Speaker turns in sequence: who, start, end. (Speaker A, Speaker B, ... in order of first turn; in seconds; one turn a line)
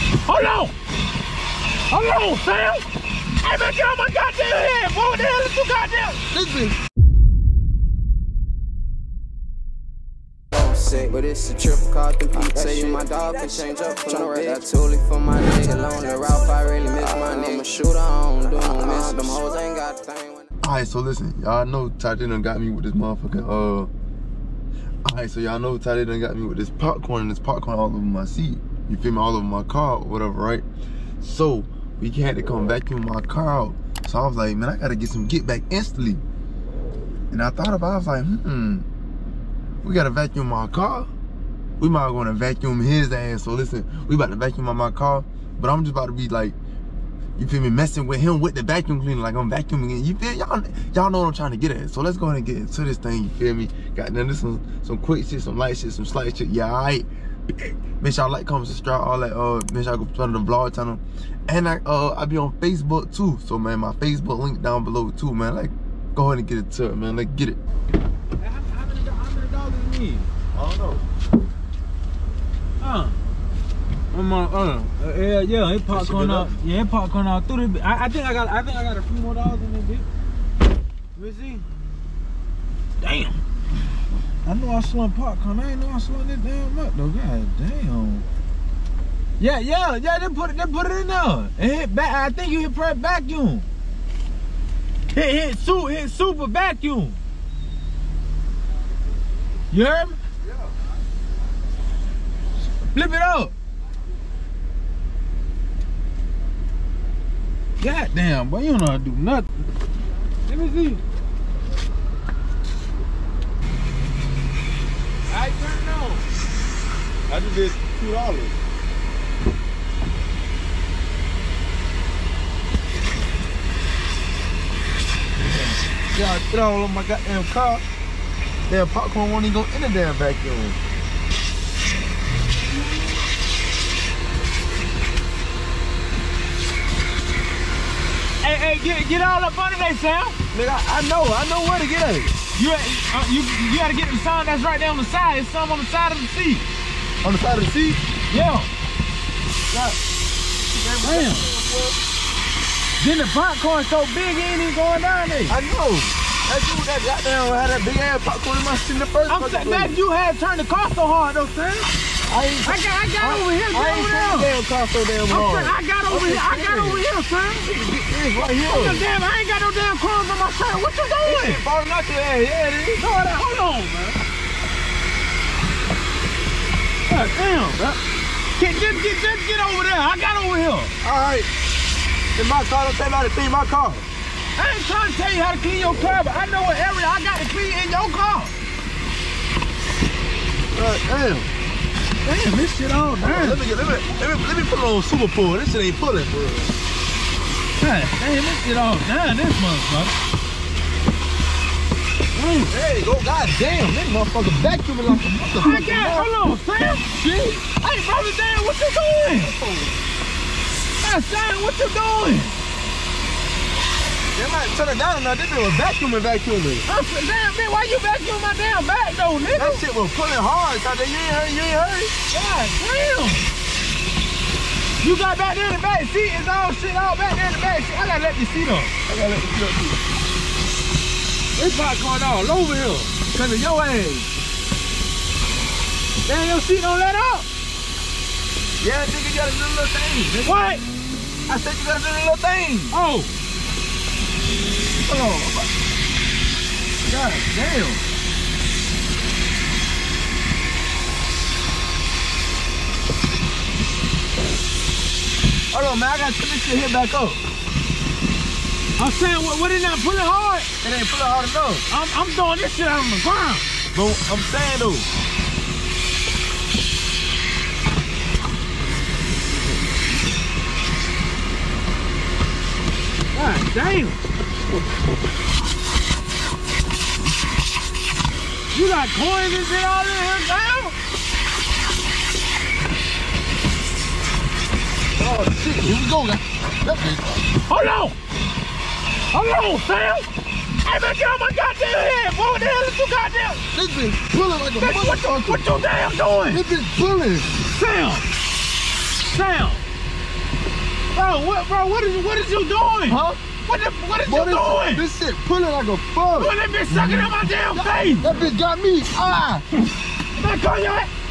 Speaker A: 0.2-0.7
Speaker A: 1.9-2.9
Speaker A: 3.4-6.2
Speaker B: 6.3-6.8
Speaker C: 10.5-20.4
Speaker B: 20.6-23.9
Speaker B: 25.0-30.6
Speaker B: 31.2-36.2
Speaker B: 37.3-38.9
Speaker B: 39.8-41.1
Speaker B: 41.8-46.5
Speaker B: 47.4-67.6
Speaker A: 68.4-70.3
Speaker B: 70.5-71.0
Speaker A: 72.8-73.2
Speaker A: 74.1-80.0
Speaker B: 75.9-76.5
Speaker A: 81.1-81.6
Speaker A: 83.0-83.4
Speaker A: 84.4-88.2
Speaker A: 89.4-93.7
Speaker A: 95.1-97.2
Speaker A: 99.7-100.2
Speaker A: 102.9-103.5
Speaker A: 107.8-109.5
Speaker A: 110.5-111.0
Speaker A: 115.3-116.2
Speaker B: 117.3-118.5
Speaker B: 125.5-127.8
Speaker B: 128.7-130.8
Speaker A: 138.4-140.3
Speaker B: 140.5-142.3
Speaker A: 142.5-146.6
Speaker B: 147.2-148.0
Speaker A: 148.3-148.7
Speaker B: 149.7-150.0
Speaker B: 150.7-152.0
Speaker A: 151.0-151.5
Speaker A: 153.0-155.6
Speaker B: 155.5-160.0
Speaker A: 159.2-161.9
Speaker B: 162.3-167.0
Speaker A: 162.7-164.5
Speaker A: 165.3-167.7
Speaker B: 167.6-169.0
Speaker A: 168.4-171.6
Speaker B: 171.2-173.0
Speaker A: 173.0-174.2
Speaker A: 177.1-177.9
Speaker A: 178.6-180.9
Speaker B: 181.0-181.5
Speaker B: 182.3-184.1
Speaker A: 184.6-188.5
Speaker B: 190.7-191.5
Speaker A: 192.2-193.6
Speaker B: 193.2-196.7
Speaker A: 197.8-200.1
Speaker A: 202.3-202.7
Speaker B: 202.7-206.3
Speaker A: 205.6-209.5
Speaker B: 209.4-209.9
Speaker A: 211.0-212.5
Speaker B: 214.3-216.8
Speaker A: 216.8-219.8
Speaker B: 219.5-222.1
Speaker A: 222.3-223.5
Speaker A: 225.0-228.9
Speaker B: 229.1-230.0
Speaker A: 231.6-233.1
Speaker B: 233.3-234.3
Speaker A: 236.2-237.5
Speaker B: 238.8-240.6
Speaker A: 240.4-240.8
Speaker B: 241.5-242.9
Speaker A: 242.9-243.3
Speaker B: 245.0-245.7
Speaker B: 247.0-248.0
Speaker B: 255.7-257.4
Speaker A: 259.0-260.7
Speaker B: 260.8-261.8
Speaker A: 261.9-263.6
Speaker B: 263.9-265.1
Speaker A: 273.3-274.2
Speaker A: 278.7-280.9
Speaker B: 285.2-287.2
Speaker A: 287.7-288.1
Speaker A: 289.3-290.3
Speaker A: 290.8-293.6
Speaker B: 293.7-295.6
Speaker A: 294.8-296.6
Speaker B: 296.5-297.5
Speaker A: 297.7-298.2
Speaker A: 299.3-299.8
Speaker A: 301.1-305.0
Speaker B: 303.1-303.4
Speaker B: 304.2-309.6
Speaker A: 306.3-308.3
Speaker A: 310.3-311.1